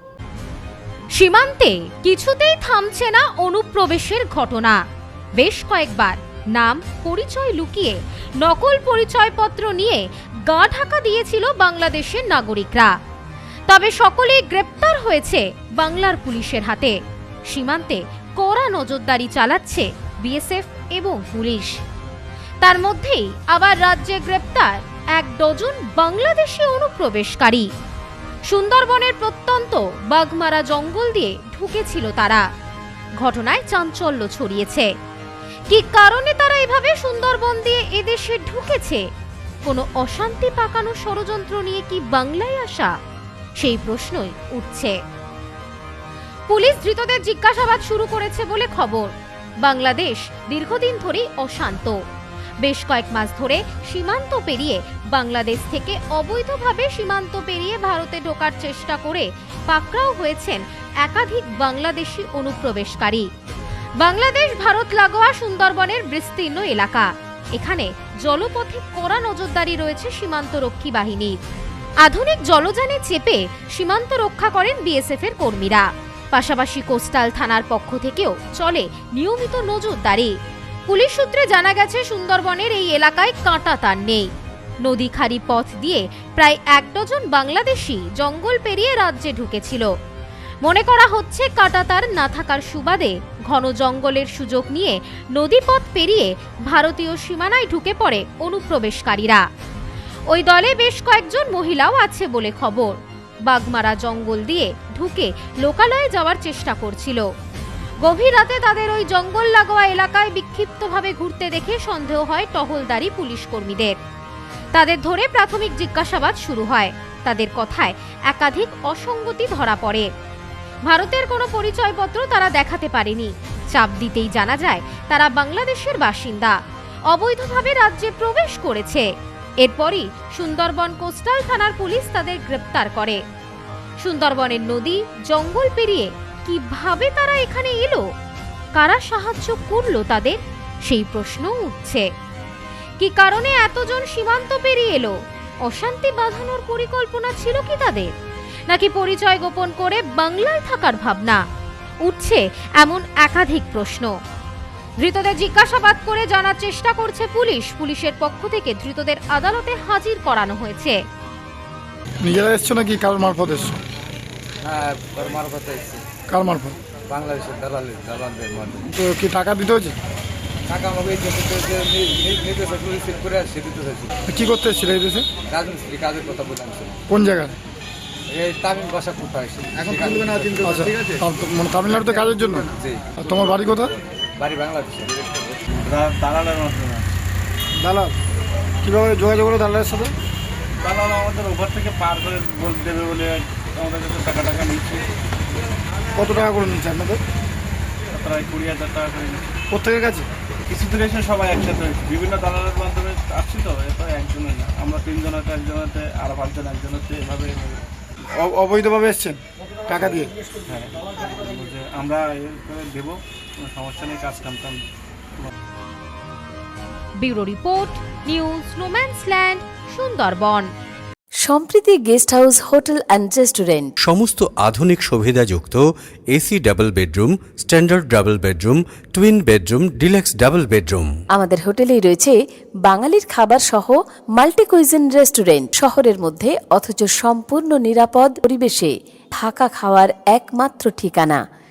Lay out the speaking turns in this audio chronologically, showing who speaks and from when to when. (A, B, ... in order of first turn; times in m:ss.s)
0:01.1-0:04.8 A
0:05.4-0:12.9 A
0:13.7-0:17.0 A
0:17.5-0:21.7 A
0:22.6-0:27.7 A
0:28.5-0:32.4 A
0:33.2-0:34.9 A
0:35.7-0:39.0 A
0:39.6-0:42.9 A
0:43.6-0:45.0 A
0:46.5-0:49.1 A
0:49.6-0:52.0 A
0:52.6-1:03.3 A
1:04.0-1:11.4 A
1:12.0-1:20.3 A
1:20.9-1:24.2 A
1:24.8-1:29.9 A
1:30.6-1:39.4 A
1:40.3-1:47.2 A
1:48.0-1:54.0 A
1:54.7-2:00.1 A
2:00.9-2:06.5 A
2:07.1-2:09.0 A
2:09.6-2:13.2 A
2:14.0-2:18.0 A
2:18.8-2:22.0 A
2:23.0-2:28.1 A
2:28.7-2:31.4 A
2:32.0-2:34.1 A
2:35.0-2:41.0 A
2:42.2-2:43.8 B
2:44.6-2:46.0 C
2:46.3-2:46.8 B
2:47.1-2:48.9 C
2:48.9-2:50.0 B
2:50.7-2:54.1 C
2:54.3-2:55.3 B
2:55.4-2:57.0 C
2:57.1-2:57.6 B
2:58.3-3:01.2 C
3:00.6-3:02.7 B
3:01.8-3:05.6 C
3:03.3-3:03.9 B
3:05.8-3:07.2 D
3:07.8-3:08.2 B
3:08.8-3:10.1 B
3:10.8-3:15.1 D
3:16.2-3:17.2 B
3:18.1-3:19.4 D
3:19.7-3:20.3 B
3:20.7-3:27.8 D
3:28.4-3:30.3 B
3:30.7-3:34.8 D
3:37.2-3:40.7 A
3:41.4-3:43.9 E
3:44.0-3:51.1 F
3:51.3-4:01.4 E